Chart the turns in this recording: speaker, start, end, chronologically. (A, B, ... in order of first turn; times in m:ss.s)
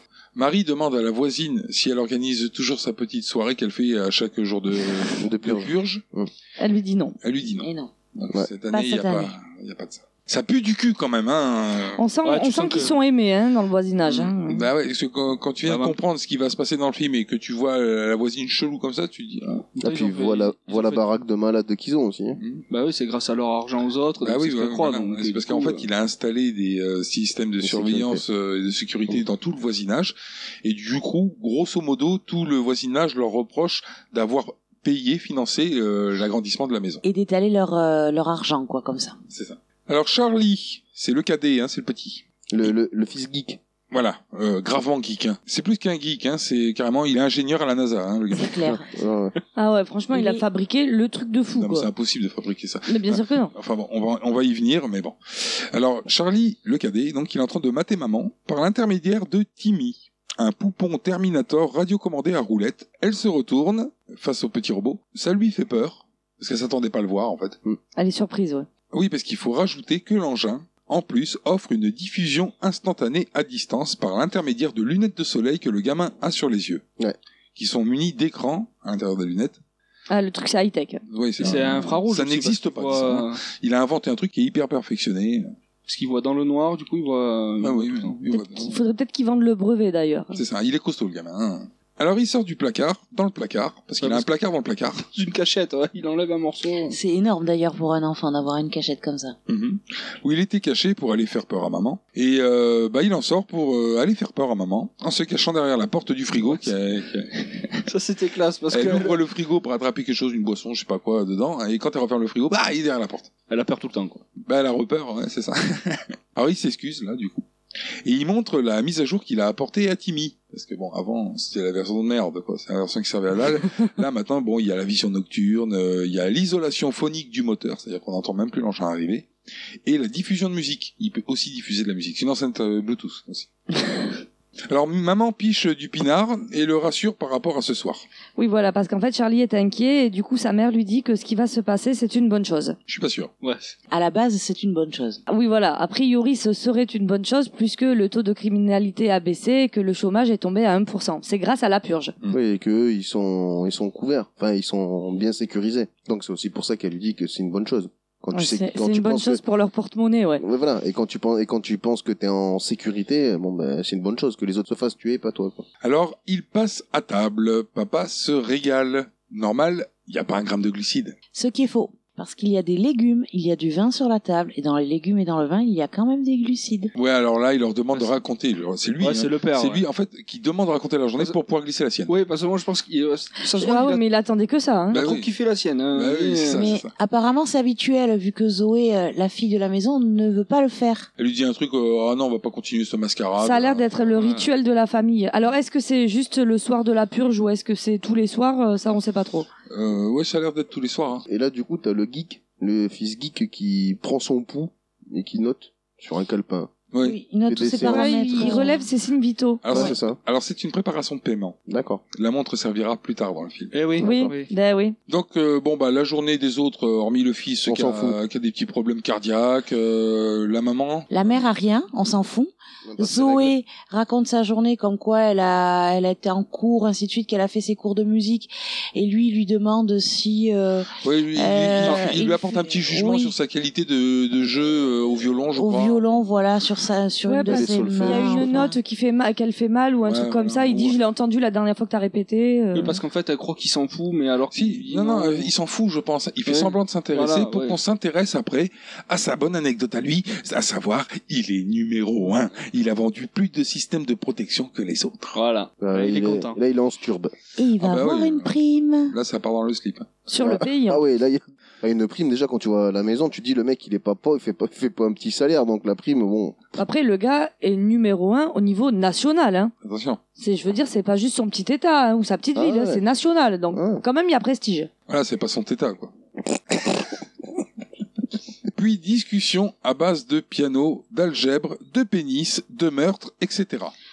0:00.4-0:06.0 A
0:05.2-0:06.3 B
0:06.6-0:07.2 C
0:07.2-0:12.0 A
0:07.6-0:07.9 D
0:08.7-0:09.4 D
0:12.0-0:14.6 C
0:12.2-0:13.0 E
0:14.1-0:19.6 A
0:15.6-0:16.0 E
0:19.8-0:21.0 E
0:19.8-0:22.4 B
0:22.7-0:25.9 E
0:24.2-0:37.0 A
0:27.6-0:28.2 B
0:37.0-0:39.2 D
0:39.3-0:42.7 A
0:42.5-0:43.6 B
0:43.9-0:48.7 A
0:48.3-0:48.9 D
0:48.6-0:49.3 B
0:49.6-0:51.9 C
0:50.1-0:50.4 D
0:51.6-1:07.6 A
0:52.9-0:53.5 C
1:08.0-1:08.7 C
1:08.9-1:16.8 A
1:17.6-1:19.6 A
1:20.1-1:21.0 C
1:21.1-1:25.5 A
1:21.4-1:23.4 E
1:25.8-1:28.4 E
1:27.6-1:28.7 A
1:28.5-1:30.4 C
1:30.3-1:35.0 A
1:34.0-1:34.3 E
1:35.0-1:37.0 E
1:36.9-1:39.4 D
1:39.5-1:47.7 A
1:46.4-1:46.7 E
1:47.8-1:49.2 E
1:48.7-1:53.3 A
1:53.5-1:54.2 E
1:54.4-1:57.4 A
1:58.0-2:09.3 A
2:09.8-2:13.5 A
2:14.7-2:18.0 A
2:18.4-2:22.8 C
2:22.9-2:23.3 A
2:23.4-2:23.7 E
2:23.9-2:25.2 D
2:25.3-2:32.2 C
2:32.3-2:39.4 B
2:38.3-2:40.4 C
2:40.4-2:45.6 B
2:45.8-2:51.2 A
2:51.3-2:56.9 D
2:56.9-3:02.1 A
2:57.9-2:58.2 E
2:59.0-2:59.8 E
3:02.1-3:04.0 E
3:03.5-3:05.0 C
3:04.9-3:06.7 E
3:04.9-3:05.3 A
3:05.9-3:06.9 A
3:06.5-3:11.1 D
3:11.2-3:13.8 A
3:13.4-3:19.5 C
3:14.2-3:14.5 E
3:19.7-3:21.2 A
3:21.3-3:26.7 B
3:26.9-3:27.2 A
3:27.0-3:28.9 D
3:27.5-3:28.5 B
3:27.8-3:29.9 C
3:29.6-3:31.6 A
3:29.7-3:30.2 B
3:31.7-3:32.0 B
3:32.1-3:33.7 A
3:33.7-3:34.5 E
3:34.0-3:35.0 C
3:35.1-3:41.3 A
3:37.7-3:38.2 B
3:41.1-3:53.4 D
3:42.9-3:43.6 B
3:51.0-3:56.0 A
3:51.8-3:52.2 E
3:55.5-3:58.8 D
3:57.3-4:03.0 C
3:57.5-3:58.6 B
4:00.1-4:01.0 A
4:02.7-4:05.5 E
4:04.5-4:15.4 A
4:06.5-4:07.8 E
4:15.3-4:16.6 E
4:15.8-4:17.3 B
4:17.6-4:19.2 D
4:17.8-4:18.6 A
4:19.1-4:20.1 A
4:20.3-4:21.0 C
4:20.4-4:26.6 B
4:26.8-4:29.7 C
4:29.8-4:30.2 A
4:30.4-4:34.9 C
4:32.6-4:33.0 B
4:33.7-4:34.0 B
4:35.1-4:36.1 A
4:38.8-4:43.9 A